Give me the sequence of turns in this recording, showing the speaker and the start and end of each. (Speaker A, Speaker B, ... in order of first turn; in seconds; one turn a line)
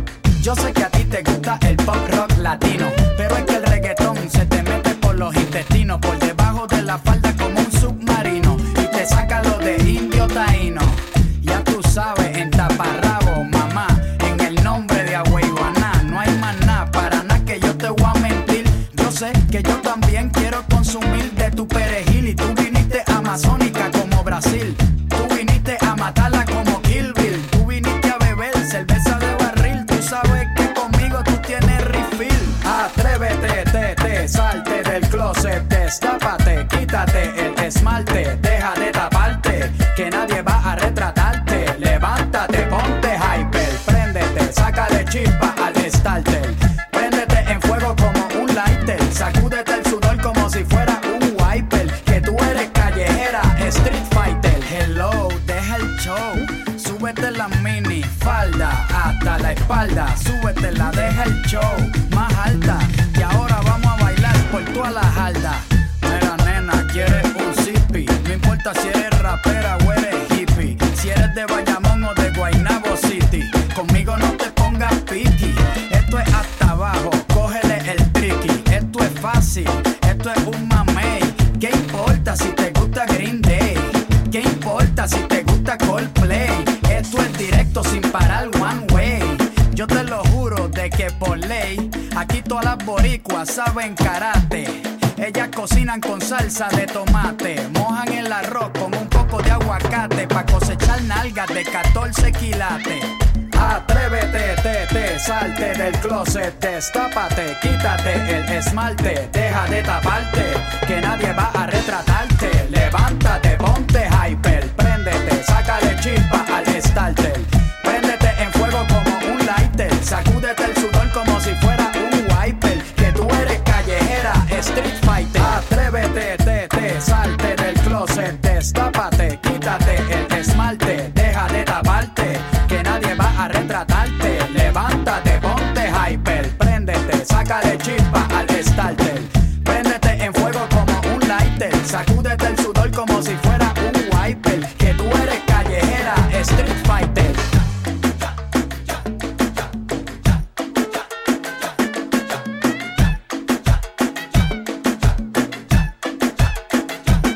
Speaker A: 0.4-147.4